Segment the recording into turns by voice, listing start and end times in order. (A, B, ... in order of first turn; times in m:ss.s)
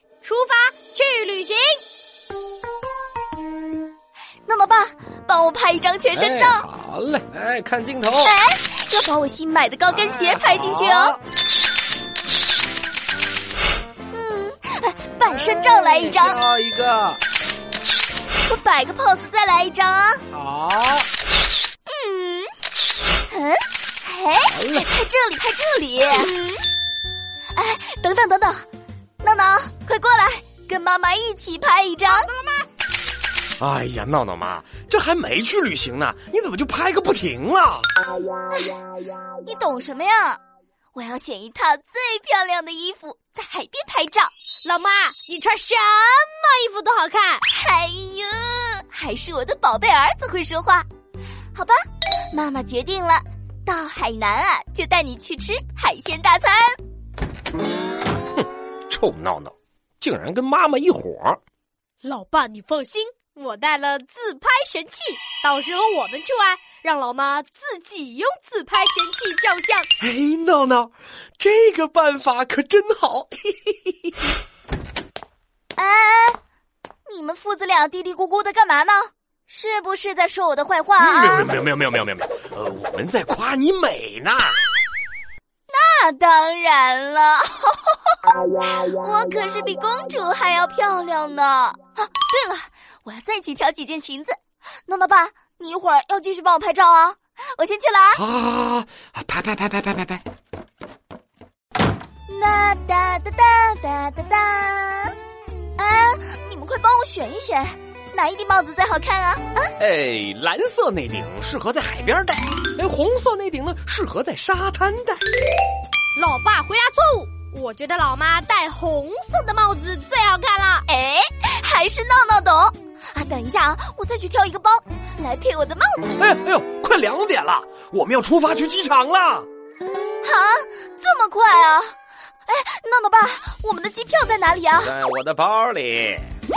0:00.2-0:01.8 A
0:04.5-0:06.7 B
0:06.1-0:08.3 C
0:08.2-0:11.2 B
0:09.9-0:11.2 C
0:14.1-0:16.4 B
0:15.2-0:17.2 C
0:18.5-0:20.2 B
0:20.3-0:21.1 C
0:21.9-0:22.5 B
0:23.3-0:26.4 B
0:24.5-0:24.8 C
0:27.6-0:28.6 B
0:29.2-0:32.3 B
0:32.1-0:32.7 A
0:33.6-0:37.9 C
0:39.4-0:40.4 B
0:40.9-0:44.3 B
0:44.6-0:47.4 A
0:47.5-0:50.9 B
0:51.5-0:51.8 B
0:52.3-0:56.8 B
0:58.4-1:01.4 C
1:02.0-1:09.9 A
1:10.0-1:13.7 C
1:15.8-1:16.4 B
1:17.1-1:21.5 B
1:21.0-1:24.6 C
1:25.7-1:28.2 B
1:28.8-1:38.2 B
1:38.1-1:40.2 C
1:42.3-1:45.1 B
1:45.8-1:49.7 B
1:49.8-1:55.2 C
1:56.2-2:00.8 A
2:00.9-2:06.2 B
2:06.2-2:09.5 C
2:10.2-2:11.9 B
2:12.5-2:14.9 B
2:14.8-2:16.3 C